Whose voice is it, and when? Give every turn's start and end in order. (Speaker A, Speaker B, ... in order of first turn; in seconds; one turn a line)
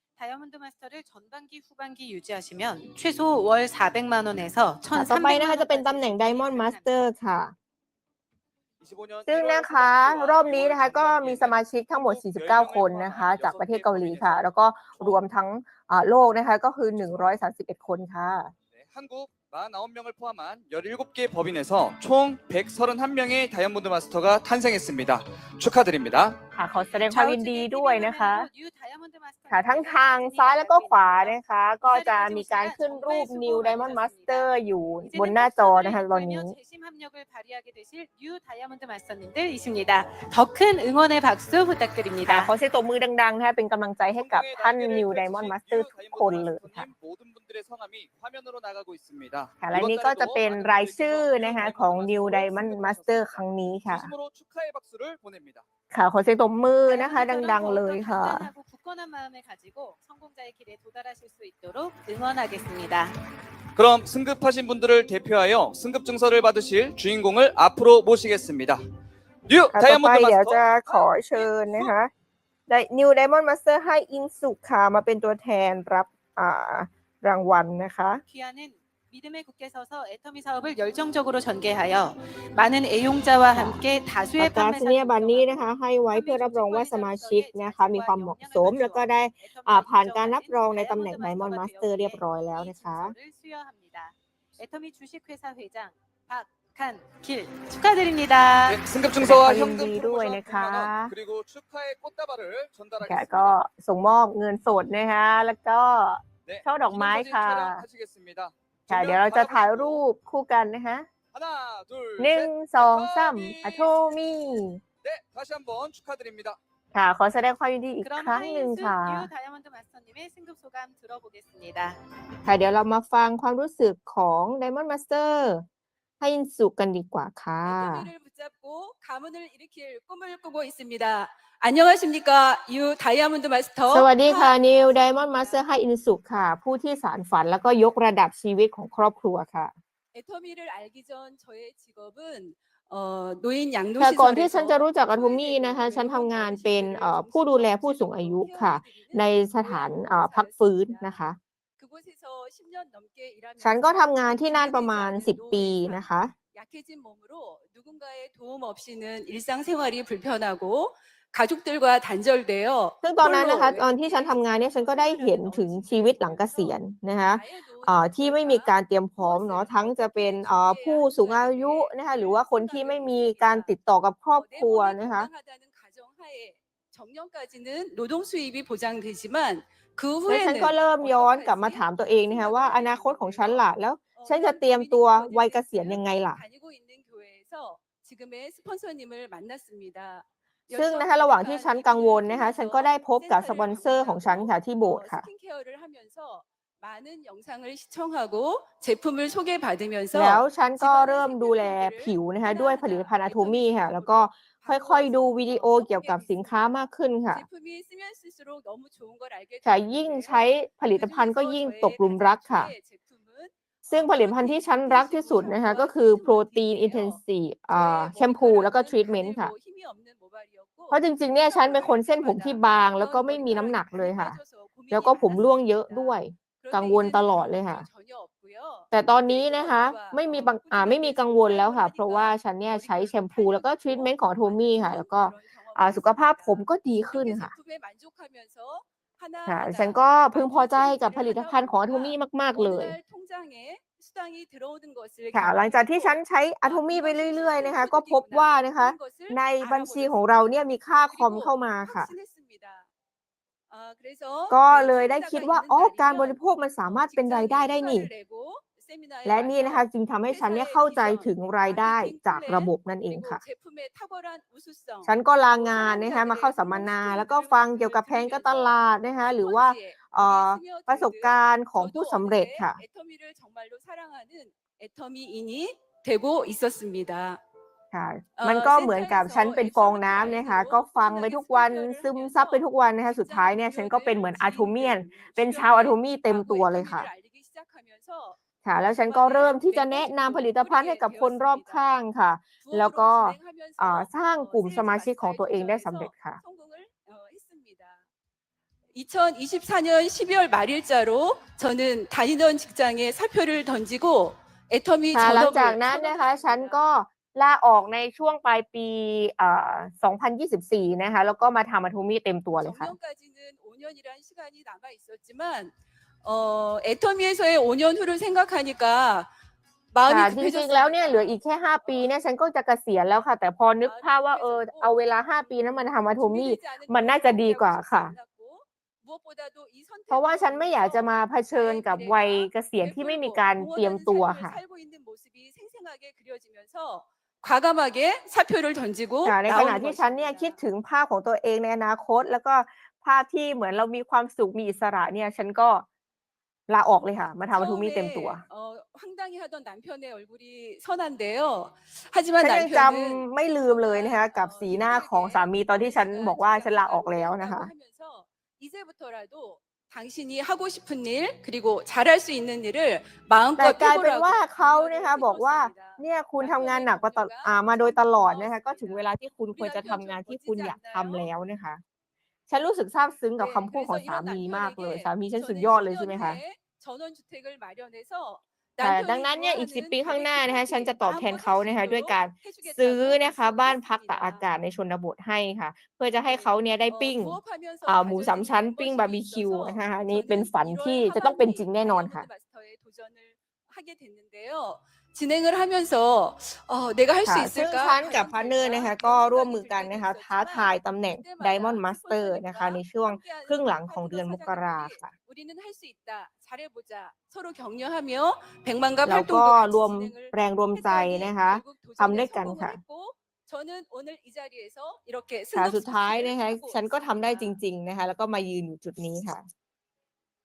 Speaker A: 0.2-6.9
Speaker B: 4.9-7.5
Speaker C: 8.8-15.2
Speaker B: 9.3-18.5
Speaker C: 18.7-26.4
Speaker B: 26.6-28.5
Speaker A: 26.9-42.5
Speaker B: 29.5-36.5
Speaker B: 42.2-46.9
Speaker C: 44.1-55.6
Speaker B: 49.6-54.1
Speaker B: 55.9-58.5
Speaker A: 56.9-63.2
Speaker C: 63.7-68.8
Speaker C: 69.5-71.9
Speaker B: 69.7-72.1
Speaker B: 72.7-78.2
Speaker A: 78.3-98.8
Speaker B: 83.5-83.8
Speaker B: 84.4-93.1
Speaker C: 98.6-103.6
Speaker B: 99.2-101.1
Speaker B: 103.0-107.8
Speaker C: 106.5-110.0
Speaker B: 108.9-111.1
Speaker C: 111.3-114.2
Speaker B: 112.2-114.8
Speaker C: 115.0-116.6
Speaker B: 116.9-119.3
Speaker A: 118.0-122.0
Speaker B: 122.4-125.7
Speaker B: 126.2-128.1
Speaker D: 127.6-135.7
Speaker B: 133.9-139.7
Speaker D: 140.1-151.2
Speaker B: 144.0-151.4
Speaker D: 151.8-173.7
Speaker B: 153.6-156.3
Speaker B: 163.0-175.3
Speaker D: 174.3-250.2
Speaker B: 180.3-186.4
Speaker B: 190.7-195.3
Speaker B: 200.1-207.4
Speaker B: 209.6-212.7
Speaker B: 213.9-219.5
Speaker B: 220.9-224.4
Speaker B: 224.9-227.9
Speaker B: 228.9-237.5
Speaker B: 239.4-243.0
Speaker B: 245.3-252.1
Speaker D: 251.0-252.9
Speaker D: 253.7-277.4
Speaker B: 254.5-258.1
Speaker B: 259.2-263.4
Speaker B: 265.0-272.8
Speaker B: 277.9-287.1
Speaker D: 278.4-291.9
Speaker B: 288.6-296.4
Speaker D: 292.6-298.1
Speaker D: 298.9-306.9
Speaker B: 305.1-312.9
Speaker D: 312.6-319.3
Speaker D: 319.9-322.1
Speaker B: 320.1-328.1
Speaker D: 323.8-325.5
Speaker D: 326.1-340.6
Speaker B: 330.1-334.6
Speaker B: 339.2-345.9
Speaker B: 346.7-348.4
Speaker D: 347.5-371.3
Speaker B: 352.4-357.7
Speaker B: 363.6-371.8
Speaker B: 372.5-376.4
Speaker D: 373.4-384.4
Speaker B: 378.8-392.3
Speaker D: 386.2-417.6
Speaker B: 397.2-405.1
Speaker B: 409.0-412.8
Speaker B: 415.5-419.4